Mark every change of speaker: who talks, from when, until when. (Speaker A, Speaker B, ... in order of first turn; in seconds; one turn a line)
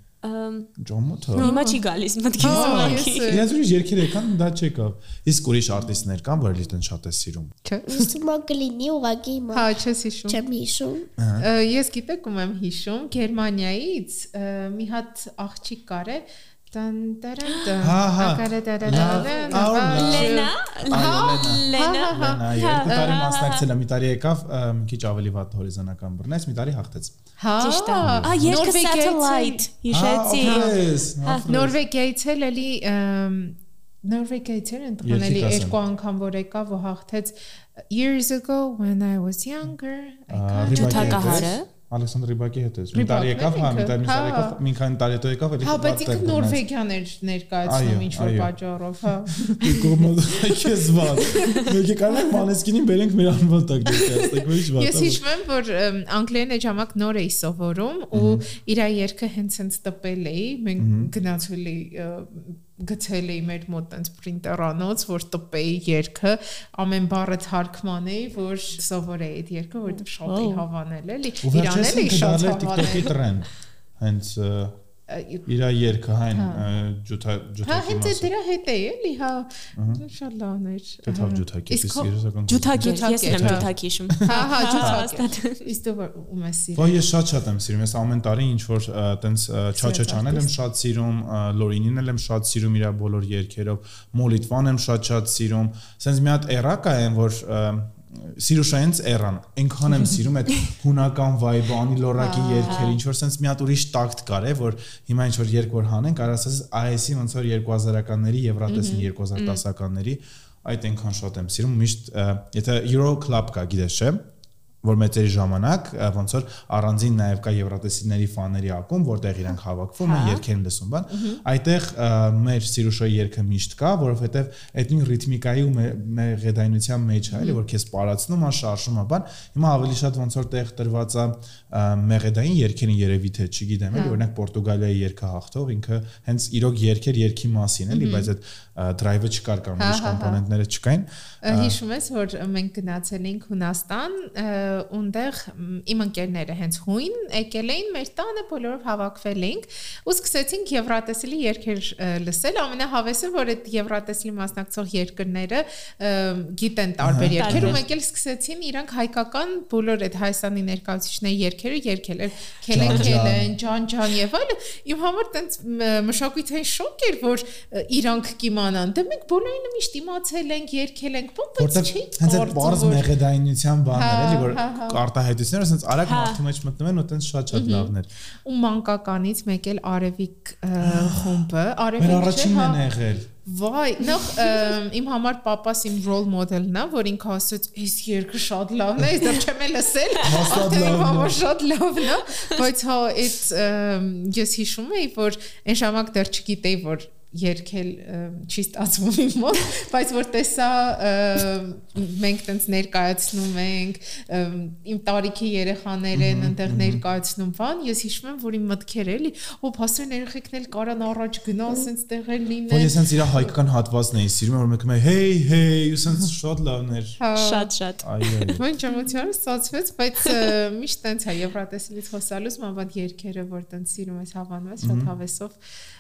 Speaker A: 0.2-0.7
Speaker B: 0.8-1.5
Speaker C: 1.4-1.8
Speaker A: 1.4-3.3
Speaker B: 2.4-7.5
Speaker C: 2.4-3.5
Speaker C: 7.6-8.1
Speaker D: 7.9-11.1
Speaker C: 9.5-10.4
Speaker B: 11.2-11.5
Speaker C: 11.4-23.2
Speaker B: 17.8-27.1
Speaker A: 18.9-23.6
Speaker C: 27.4-29.6
Speaker A: 27.6-30.7
Speaker B: 28.0-28.6
Speaker B: 29.9-31.8
Speaker C: 30.4-30.8
Speaker A: 31.2-31.5
Speaker C: 31.4-41.5
Speaker B: 35.0-35.8
Speaker B: 40.3-46.6
Speaker A: 40.7-41.7
Speaker C: 42.9-44.6
Speaker C: 45.6-52.4
Speaker B: 47.6-48.5
Speaker B: 49.4-55.2
Speaker C: 54.1-73.1
Speaker B: 58.1-58.4
Speaker B: 60.8-61.1
Speaker A: 69.9-70.6
Speaker B: 71.4-74.8
Speaker C: 75.1-75.5
Speaker B: 75.4-78.3
Speaker C: 76.3-76.6
Speaker C: 77.6-82.1
Speaker B: 79.8-80.0
Speaker B: 81.0-85.0
Speaker A: 82.5-85.7
Speaker C: 82.8-83.7
Speaker C: 84.2-87.0
Speaker B: 86.7-114.2
Speaker C: 89.8-90.5
Speaker C: 102.2-102.9
Speaker A: 102.6-103.0
Speaker C: 108.7-109.1
Speaker A: 109.4-109.6
Speaker B: 114.8-141.8
Speaker A: 120.0-120.4
Speaker C: 121.1-121.4
Speaker C: 127.3-127.6
Speaker C: 133.9-134.2
Speaker C: 137.9-138.3
Speaker C: 139.8-140.4
Speaker C: 141.4-173.1
Speaker B: 157.0-157.8
Speaker A: 157.3-157.8
Speaker B: 162.7-163.5
Speaker B: 171.6-178.1
Speaker C: 173.9-175.0
Speaker A: 176.1-176.4
Speaker C: 177.5-177.9
Speaker C: 178.4-182.8
Speaker B: 180.8-181.4
Speaker B: 182.0-183.3
Speaker C: 183.4-213.5
Speaker B: 190.2-191.4
Speaker B: 206.1-207.0
Speaker B: 212.7-217.2
Speaker C: 217.2-217.7
Speaker A: 217.3-218.1
Speaker B: 218.0-218.6
Speaker C: 218.5-225.6
Speaker B: 224.8-225.1